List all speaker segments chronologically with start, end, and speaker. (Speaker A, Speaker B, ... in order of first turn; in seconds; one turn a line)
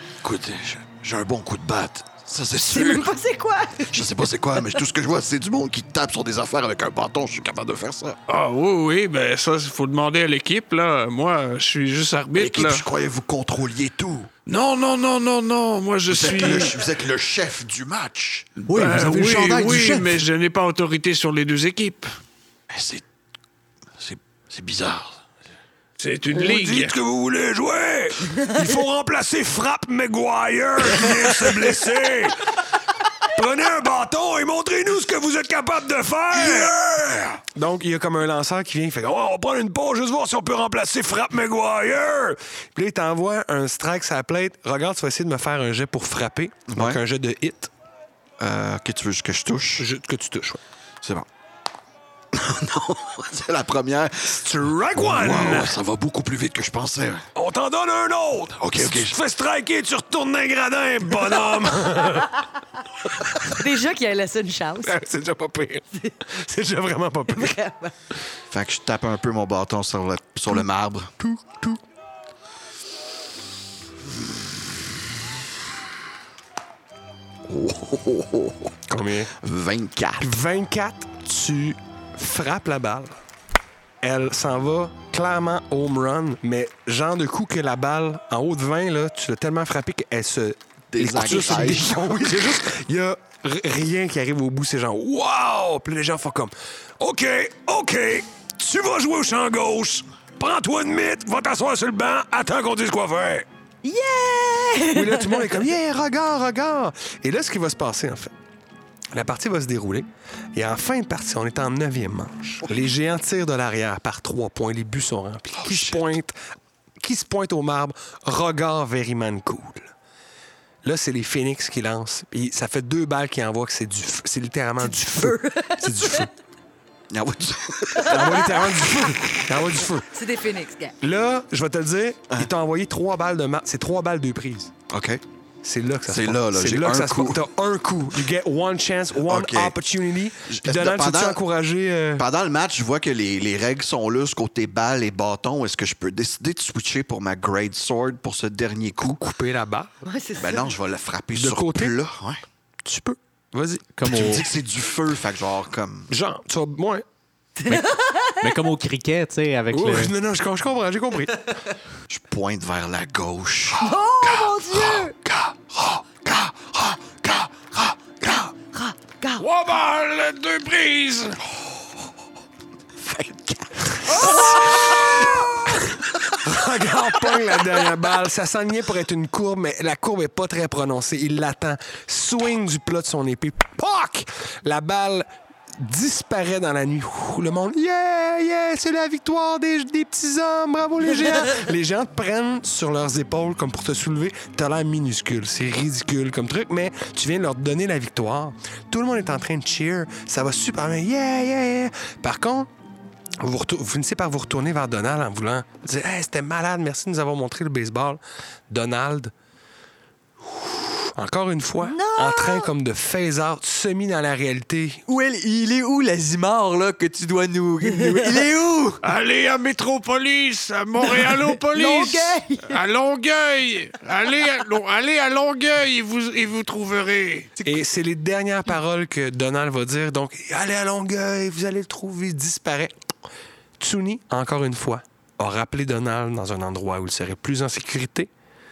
Speaker A: 0.2-3.2
Speaker B: 2.7-4.2
Speaker A: 3.9-8.2
Speaker C: 8.3-12.8
Speaker A: 12.3-14.3
Speaker C: 14.5-16.8
Speaker A: 16.1-18.5
Speaker C: 18.6-22.2
Speaker D: 18.7-20.3
Speaker A: 22.7-23.1
Speaker A: 24.0-25.2
Speaker C: 26.0-27.0
Speaker E: 26.3-32.7
Speaker E: 33.2-47.7
Speaker A: 36.3-37.4
Speaker A: 46.7-47.0
Speaker A: 48.4-49.9
Speaker E: 49.8-50.6
Speaker A: 51.0-51.3
Speaker A: 52.3-57.3
Speaker E: 54.3-55.8
Speaker E: 57.4-62.4
Speaker A: 58.6-59.2
Speaker E: 63.0-63.6
Speaker B: 63.4-65.0
Speaker E: 64.8-67.6
Speaker B: 67.3-67.9
Speaker A: 68.5-71.1
Speaker E: 71.2-71.8
Speaker A: 74.0-75.3
Speaker A: 77.5-78.8
Speaker E: 78.9-79.3
Speaker A: 79.3-80.4
Speaker E: 80.2-83.2
Speaker E: 84.0-103.5
Speaker A: 90.9-92.2
Speaker B: 103.8-105.6
Speaker E: 104.9-108.3
Speaker E: 109.1-116.4
Speaker A: 115.6-116.0
Speaker E: 117.0-119.9
Speaker E: 120.8-126.3
Speaker B: 124.8-126.3
Speaker A: 127.1-128.5
Speaker B: 128.0-128.3
Speaker E: 128.1-130.1
Speaker B: 130.0-130.9
Speaker E: 131.0-134.7
Speaker A: 134.9-135.2
Speaker E: 135.6-142.3
Speaker A: 136.1-137.4
Speaker A: 139.2-139.8
Speaker A: 140.4-141.4
Speaker A: 142.2-149.2
Speaker E: 149.2-149.9
Speaker B: 150.0-150.7
Speaker A: 150.4-152.4
Speaker E: 151.3-152.0
Speaker E: 152.8-154.0
Speaker D: 153.9-154.5
Speaker A: 154.1-156.1
Speaker E: 156.1-157.0
Speaker B: 157.6-158.6
Speaker D: 157.7-160.1
Speaker E: 159.7-161.6
Speaker A: 162.1-168.5
Speaker B: 163.7-165.2
Speaker B: 168.3-169.4
Speaker C: 169.4-171.4
Speaker E: 173.8-185.3
Speaker B: 174.1-175.7
Speaker E: 185.8-202.7
Speaker E: 203.4-209.3
Speaker E: 210.4-215.0
Speaker B: 211.8-212.7
Speaker F: 215.1-219.0
Speaker C: 219.0-227.5
Speaker B: 221.7-222.8
Speaker E: 227.6-232.9
Speaker E: 233.8-238.3